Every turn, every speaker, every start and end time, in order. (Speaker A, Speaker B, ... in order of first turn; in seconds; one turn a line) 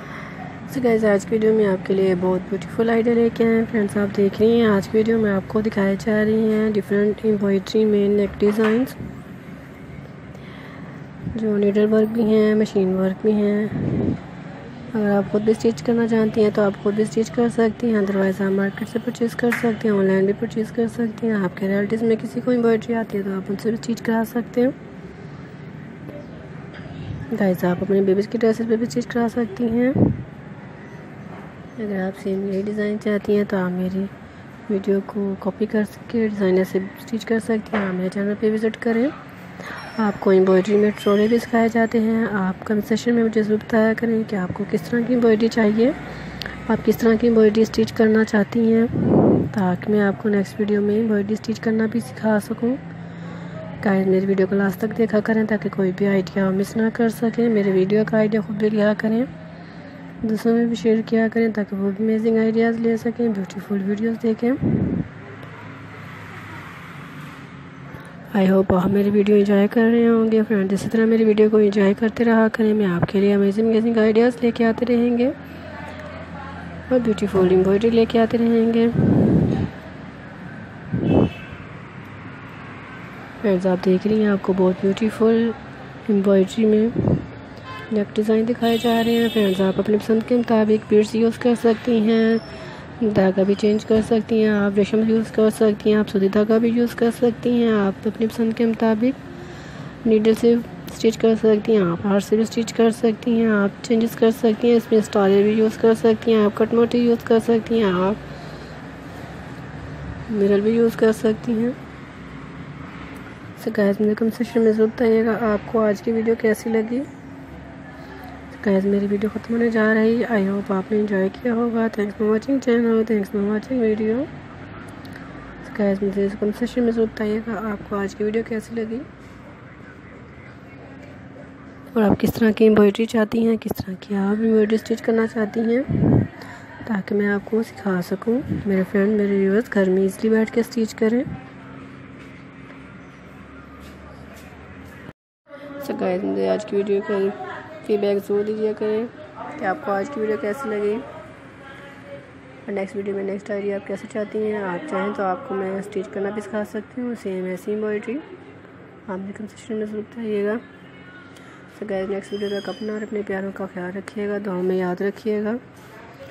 Speaker A: 0.7-9.0
Speaker A: 11.3-14.2
Speaker A: 14.9-24.7
Speaker A: 27.3-30.2
Speaker A: 31.8-34.1
Speaker A: 34.7-39.1
Speaker A: 40.0-46.0
Speaker A: 46.6-52.8
Speaker A: 53.8-59.3
Speaker A: 60.2-65.1
Speaker A: 68.3-75.3
Speaker A: 76.9-79.7
Speaker A: 83.4-87.3
Speaker A: 87.9-92.4
Speaker A: 93.0-99.2
Speaker A: 100.0-108.2
Speaker A: 110.3-111.8
Speaker A: 113.6-117.1
Speaker A: 118.5-124.3
Speaker A: 125.6-129.1
Speaker A: 131.9-136.3
Speaker A: 136.8-141.3
Speaker A: 145.8-151.1
Speaker A: 152.7-158.2
Speaker A: 159.1-160.6
Speaker A: 161.7-165.6